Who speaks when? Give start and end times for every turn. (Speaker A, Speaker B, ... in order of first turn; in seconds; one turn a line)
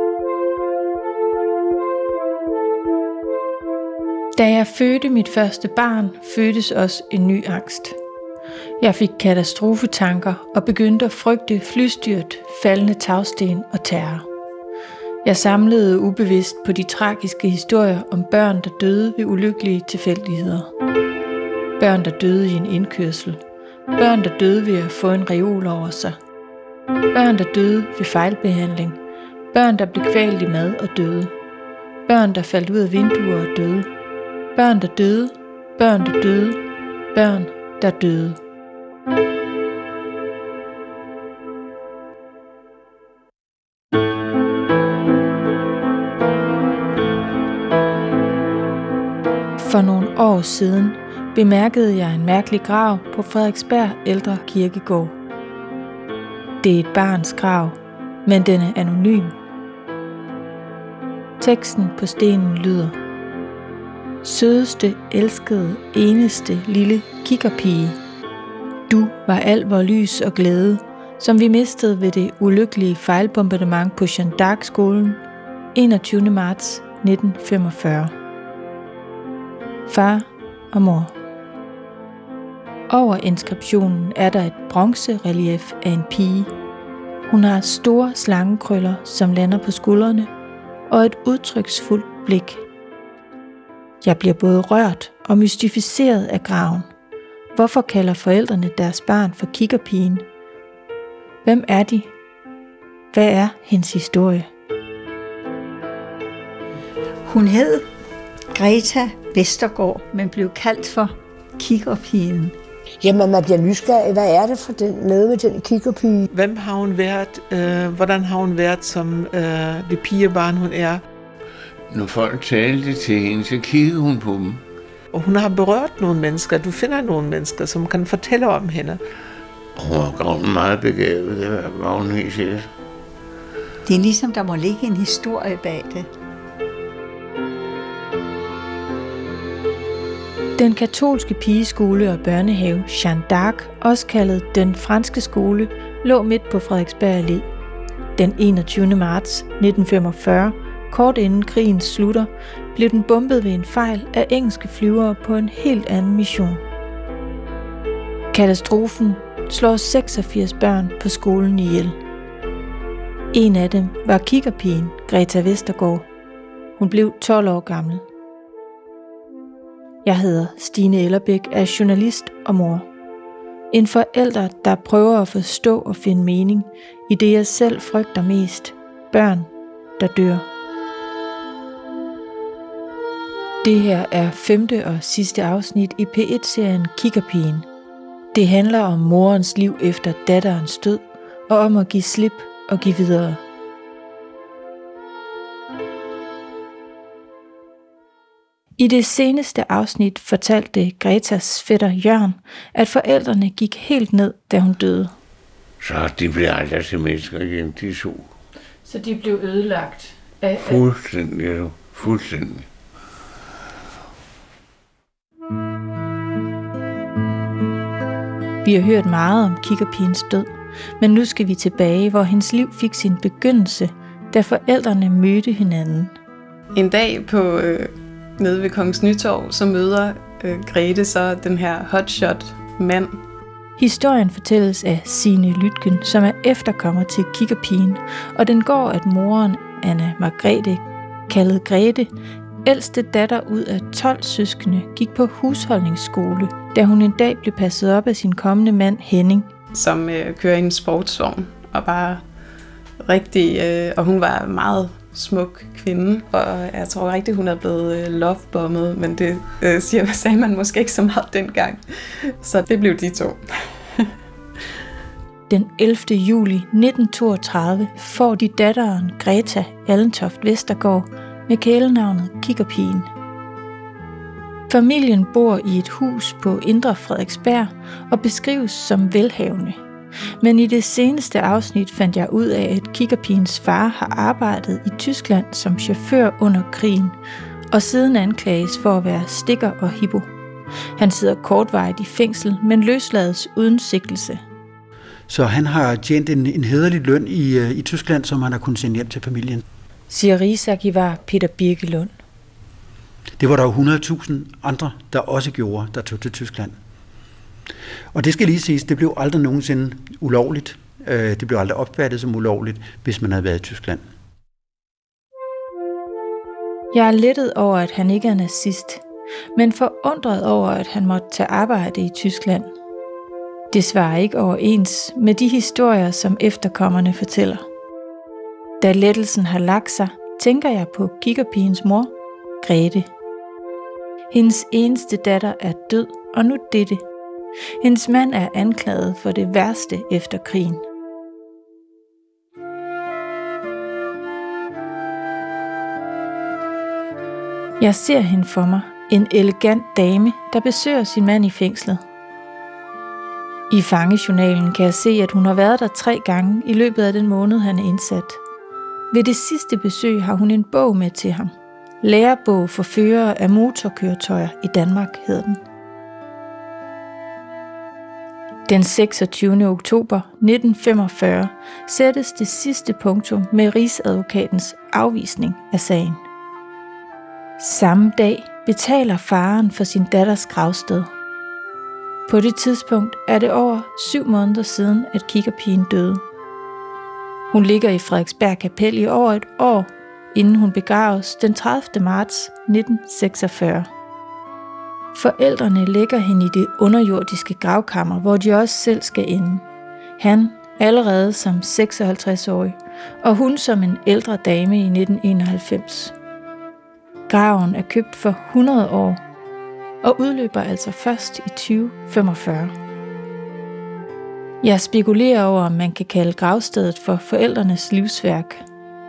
Speaker A: 4.3-8.0
Speaker A: 8.8-14.2
Speaker A: 15.2-20.7
Speaker A: 21.8-23.4
Speaker A: 24.0-26.2
Speaker A: 27.1-29.0
Speaker A: 29.5-31.3
Speaker A: 32.1-33.9
Speaker A: 34.5-36.6
Speaker A: 37.1-38.4
Speaker A: 49.6-55.1
Speaker A: 56.6-59.4
Speaker A: 61.4-62.9
Speaker A: 64.2-68.0
Speaker A: 68.9-75.2
Speaker A: 75.7-78.1
Speaker A: 79.9-81.1
Speaker A: 82.9-86.5
Speaker A: 87.3-90.3
Speaker A: 90.9-92.6
Speaker A: 94.0-96.9
Speaker A: 97.5-100.2
Speaker A: 101.4-102.1
Speaker A: 103.1-104.5
Speaker B: 107.2-107.8
Speaker B: 108.5-112.5
Speaker C: 113.0-116.3
Speaker D: 116.3-121.0
Speaker E: 121.9-124.6
Speaker D: 125.1-129.0
Speaker E: 129.8-132.7
Speaker B: 133.8-136.1
Speaker A: 140.6-147.5
Speaker A: 148.2-156.6
Speaker A: 158.3-162.0
Speaker A: 163.3-166.1
Speaker A: 166.8-168.0
Speaker A: 170.0-172.8
Speaker A: 173.7-180.4
Speaker A: 183.6-187.7
Speaker A: 188.3-193.4
Speaker A: 198.8-205.1
Speaker E: 205.8-208.3
Speaker A: 208.8-210.8
Speaker E: 210.6-212.7
Speaker A: 218.6-220.5
Speaker A: 221.0-226.1
Speaker F: 226.7-233.2
Speaker A: 233.8-242.1
Speaker A: 242.6-249.5
Speaker F: 249.7-252.2
Speaker F: 253.0-264.1
Speaker A: 265.5-273.1
Speaker A: 274.7-279.8
Speaker A: 280.4-287.2
Speaker A: 287.7-290.3
Speaker A: 291.0-294.4
Speaker G: 295.3-299.6
Speaker A: 300.1-302.1
Speaker G: 303.4-306.8
Speaker G: 308.1-314.1
Speaker A: 316.9-319.0
Speaker A: 319.6-322.7
Speaker A: 323.7-327.6
Speaker A: 328.8-333.1
Speaker A: 334.3-337.0
Speaker A: 337.8-340.8
Speaker A: 347.8-352.0
Speaker A: 353.7-358.4
Speaker A: 359.1-365.6
Speaker A: 368.7-376.2
Speaker A: 377.6-381.1
Speaker A: 382.3-386.2
Speaker A: 387.5-393.9
Speaker A: 395.1-399.6
Speaker A: 400.2-406.1
Speaker A: 407.3-409.2
Speaker A: 410.0-412.7
Speaker A: 414.6-418.6